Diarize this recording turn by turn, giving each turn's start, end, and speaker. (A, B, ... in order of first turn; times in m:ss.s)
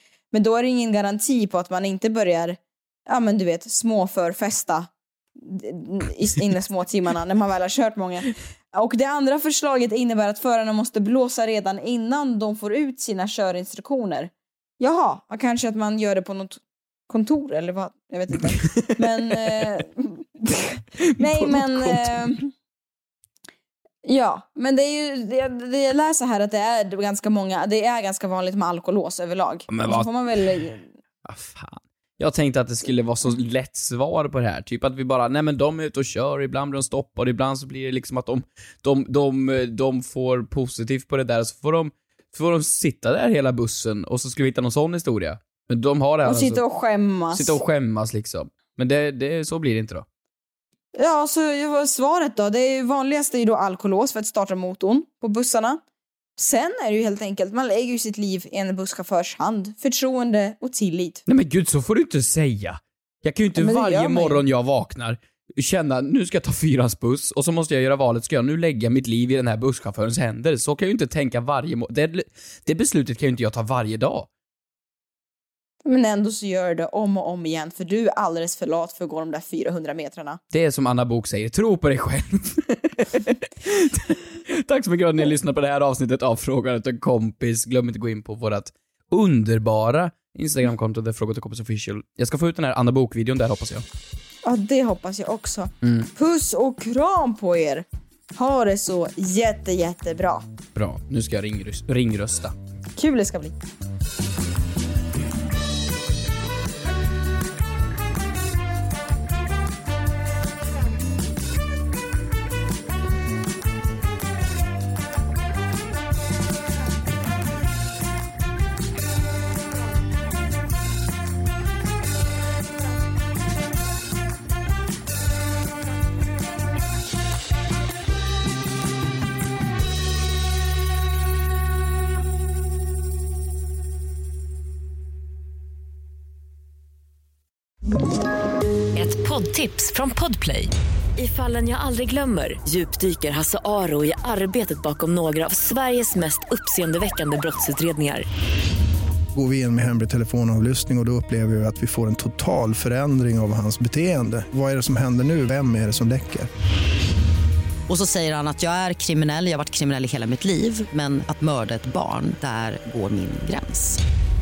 0:00.3-0:22.5 A
0:18.6-0:19.6 B
0:21.0-0:22.3 B
0:24.1-0:30.8 A
0:29.7-0:30.1 B
0:31.2-0:46.6 B
0:46.2-0:47.6 A
0:47.3-0:50.0 B
0:51.0-0:55.8 A
0:56.4-1:01.2 A
1:01.3-1:14.3 B
1:03.6-1:04.4 A
1:15.8-1:20.4 A
1:20.5-1:33.8 B
1:34.4-1:37.8 A
1:35.8-1:36.1 B
1:38.4-1:40.4 A
1:40.8-1:42.6 B
1:43.0-1:43.5 A
2:19.0-2:28.2 C
2:29.3-2:36.5 D
2:37.9-2:44.0 E